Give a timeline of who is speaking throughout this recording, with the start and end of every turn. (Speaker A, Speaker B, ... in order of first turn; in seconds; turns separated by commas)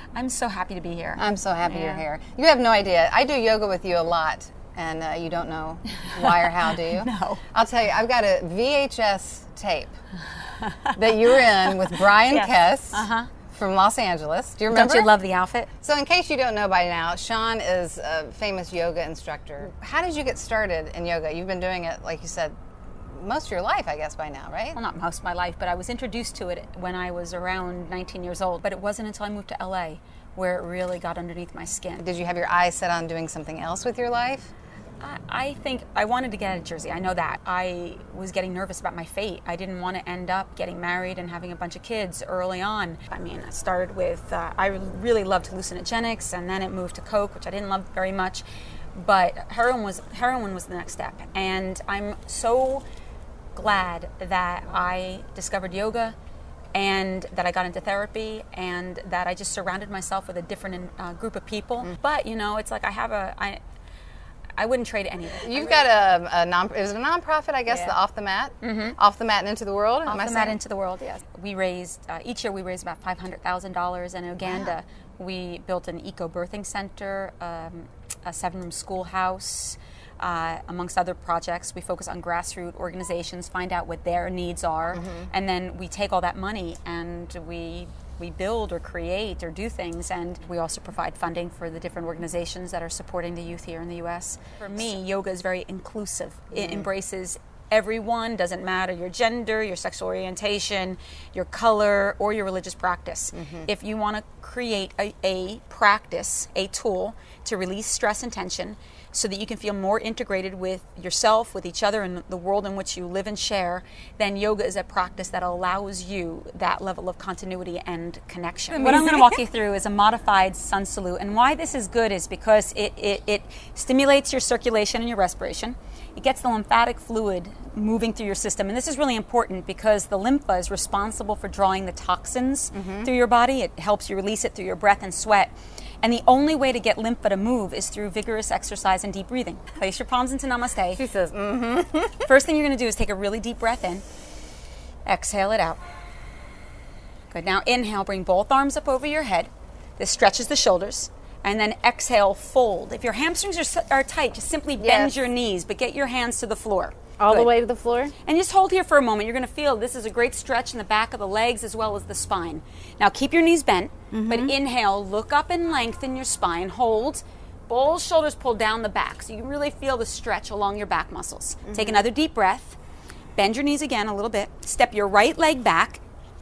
Speaker A: 0.1-2.0, Speaker B: 1.2-9.9, Speaker A: 6.1-7.4, Speaker A: 10.5-13.3, Speaker B: 11.0-15.1, Speaker A: 14.7-15.7, Speaker B: 15.8-24.8, Speaker A: 24.7-32.0, Speaker B: 32.0-34.5, Speaker A: 35.0-48.4, Speaker A: 49.0-52.8, Speaker A: 53.5-56.1, Speaker A: 56.7-63.6, Speaker A: 64.6-65.9, Speaker B: 65.4-70.6, Speaker A: 68.6-69.0, Speaker A: 70.1-141.0, Speaker B: 74.5-74.8, Speaker B: 84.9-85.3, Speaker B: 96.5-96.9, Speaker B: 103.3-103.7, Speaker B: 118.7-119.4, Speaker B: 132.7-133.1, Speaker B: 141.0-142.3, Speaker A: 142.2-144.0, Speaker A: 145.1-145.8, Speaker A: 147.3-157.5, Speaker B: 154.8-155.1, Speaker B: 157.2-158.1, Speaker A: 158.2-172.8, Speaker B: 164.1-164.5, Speaker B: 171.7-172.1, Speaker A: 173.4-176.0